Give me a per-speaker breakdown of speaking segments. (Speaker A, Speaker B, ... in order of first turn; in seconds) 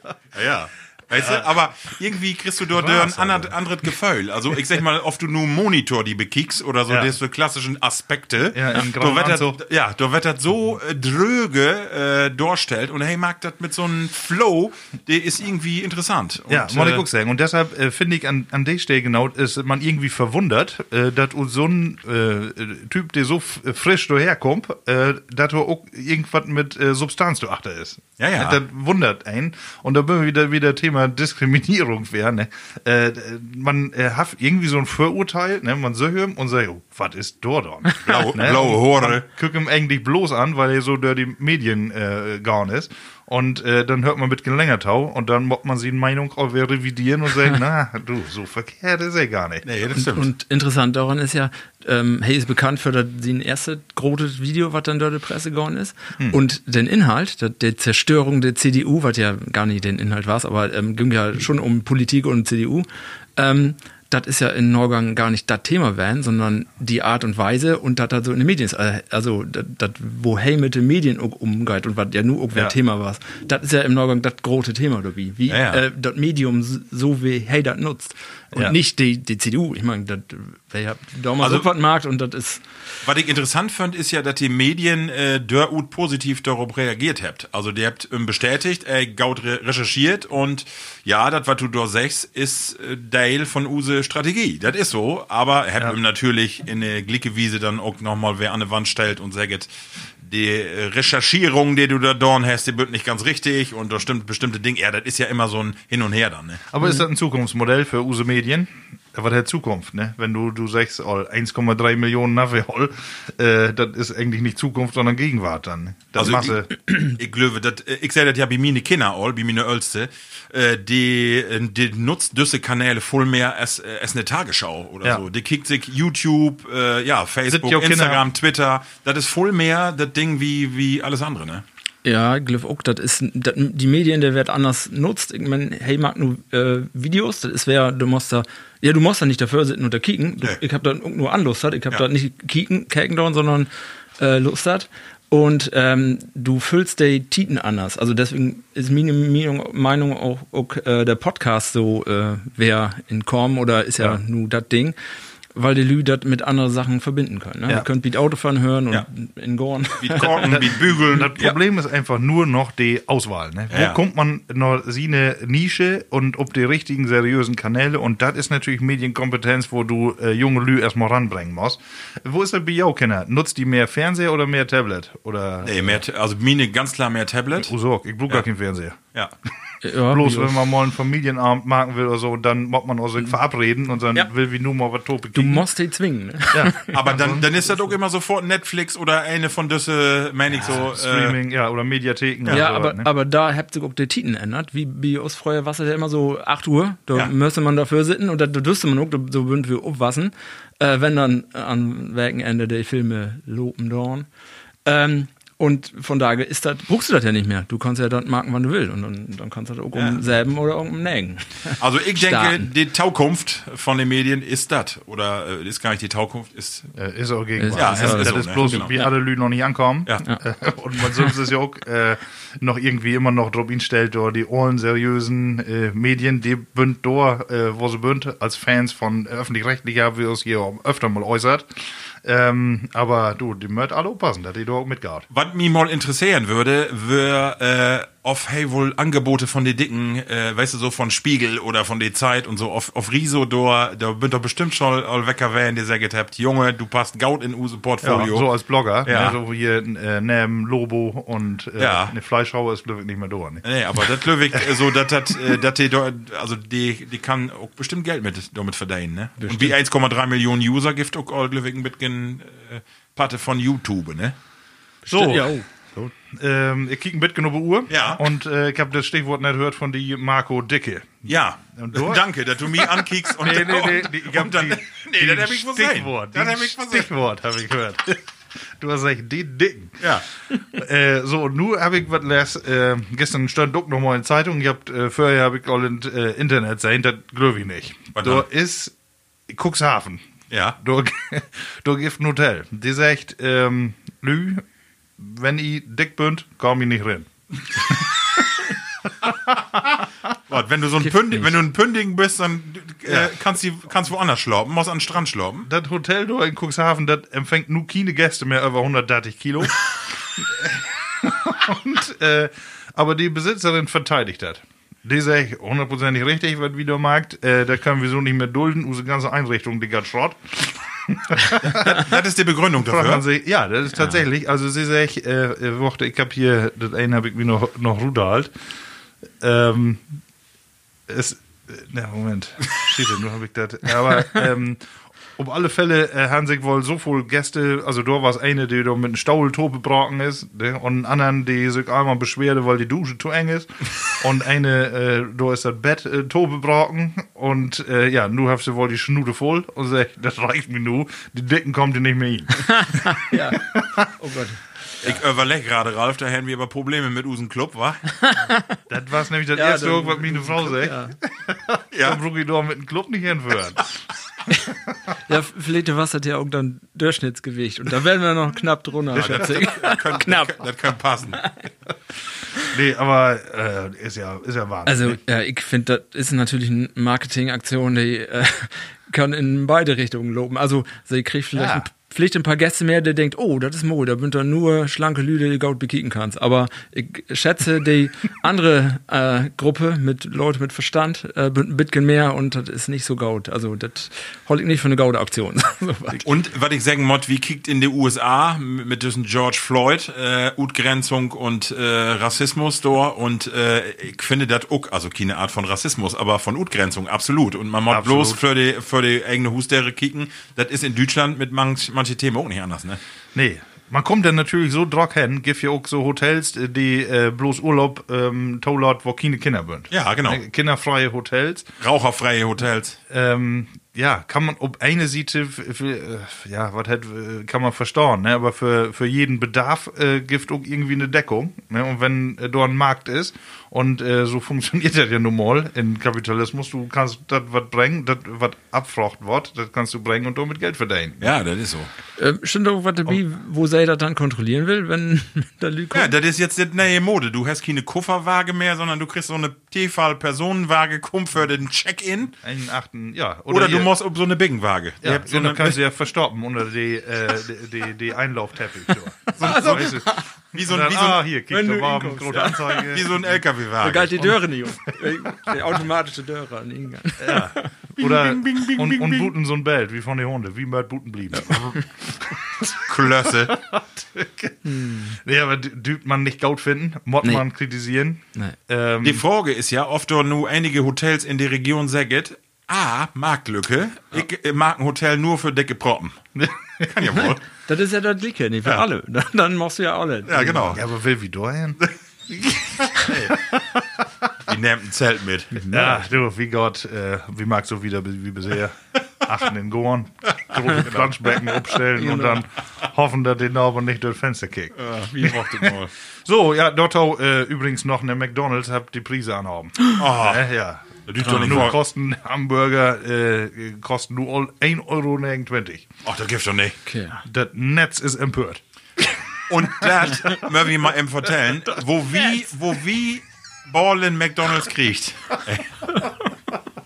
Speaker A: 0.3-17.0, 28.2-28.6, 38.0-39.3, 49.6-50.3, 75.5-75.8, 81.4-81.7, 83.0-99.7, 100.2-106.7, 116.2-131.6, 160.0-161.5, 163.7-164.0, 175.6-177.7, 186.9-191.4, 209.9-210.2, 211.8-216.9, 217.7-218.9, 235.3-248.5, 249.0-249.4, 251.8-252.1, 253.6-264.4, 267.9-268.2, 271.3-277.1, 288.2-288.5, 290.5-290.8, 300.5-305.7, 321.6-323.3, 355.0-358.1, 361.9-362.2, 369.1-371.4, 396.2-413.0, 419.9-420.4, 421.8-423.0, 441.2-441.9, 445.9-452.4, 453.5-455.8, 459.4-461.3, 462.9-464.3, 468.0-469.3, 472.8-473.6, 479.0-486.2, 486.8-487.4, 490.3-490.8, 492.8-493.5, 494.4-495.8, 500.5-501.1, 504.8-505.9, 510.0-510.5, 511.1-511.8, 516.0-516.8, 519.5-526.0
Speaker B: 1.1-1.5, 2.7-3.5, 6.9-7.1, 8.5-9.6, 16.5-49.7, 106.7-116.7, 127.5-128.2, 160.2-176.0, 177.6-179.0, 180.1-185.7, 186.5-187.6, 190.6-193.1, 216.9-235.3, 248.0-255.6, 265.1-288.9, 289.5-294.6, 295.2-298.2, 299.3-299.6, 303.1-303.3, 305.6-322.1, 322.8-328.5, 329.4-330.0, 331.1-334.8, 335.4-354.1, 358.9-364.0, 372.6-375.2, 381.6-381.9, 407.9-408.4, 413.4-421.7, 423.1-441.3, 452.4-453.9, 455.0-463.4, 464.2-465.5, 467.2-479.2, 486.4-486.9, 490.7-494.1, 495.7-515.9, 517.2-518.6
Speaker C: 50.0-82.6, 132.0-155.0, 155.6-160.6, 179.8-180.6, 185.3-187.0, 192.5-204.3, 204.8-212.7, 217.6-219.1, 259.4-259.7, 265.1-265.6, 301.1-301.5, 352.7-354.6, 358.2-358.8, 359.6-361.2, 365.3-370.6, 374.9-396.2, 442.2-446.1, 459.4-460.3, 461.5-462.9, 463.8-467.7, 474.6-475.2, 487.1-490.8, 502.0-502.4, 511.3-511.6, 516.9-517.2